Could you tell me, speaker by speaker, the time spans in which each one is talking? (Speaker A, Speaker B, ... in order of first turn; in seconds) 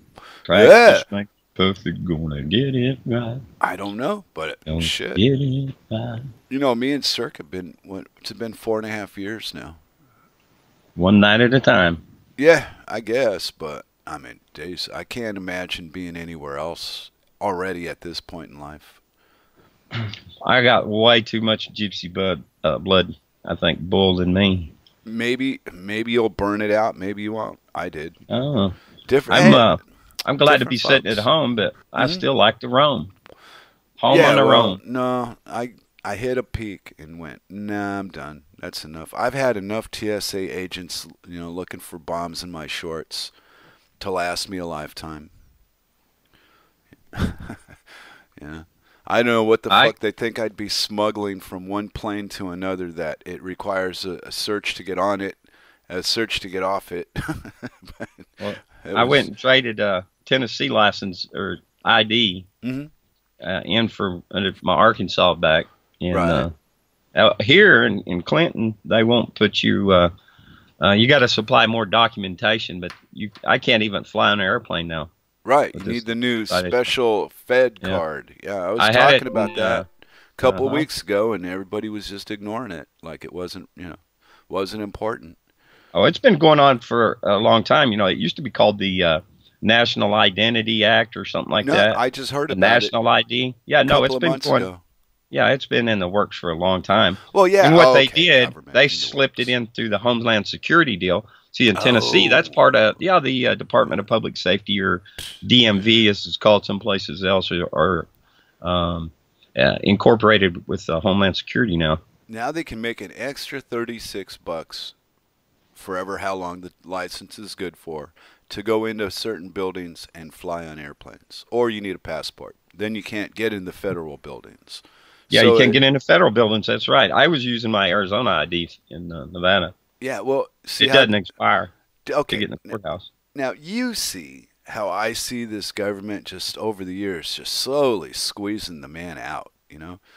Speaker A: 0.5-3.4, 4.7-6.2, 10.9-12.0, 20.0-24.7, 28.3-28.7, 29.3-33.1, 34.0-34.8, 58.4-62.5, 63.4-66.5, 67.1-70.1, 70.8-75.1, 75.7-76.9, 78.8-79.8, 80.4-80.9, 85.9-94.7, 95.3-108.1, 108.6-112.0, 125.3-129.7, 130.8-131.7, 132.3-133.1
Speaker B: 0.5-1.1, 3.6-5.2, 6.5-9.8, 12.4-19.0, 25.0-28.2, 29.1-29.7, 30.4-31.2, 32.0-32.2, 34.1-43.3, 44.0-45.3, 47.1-47.6, 48.4-59.3, 62.6-62.9, 66.1-66.5, 75.4-85.3, 91.6-92.9, 93.8-94.8, 97.3-99.5, 101.7-102.6, 105.7-106.1, 112.3-114.9, 115.7-125.8, 130.0-131.2, 132.1-132.8, 133.3-140.0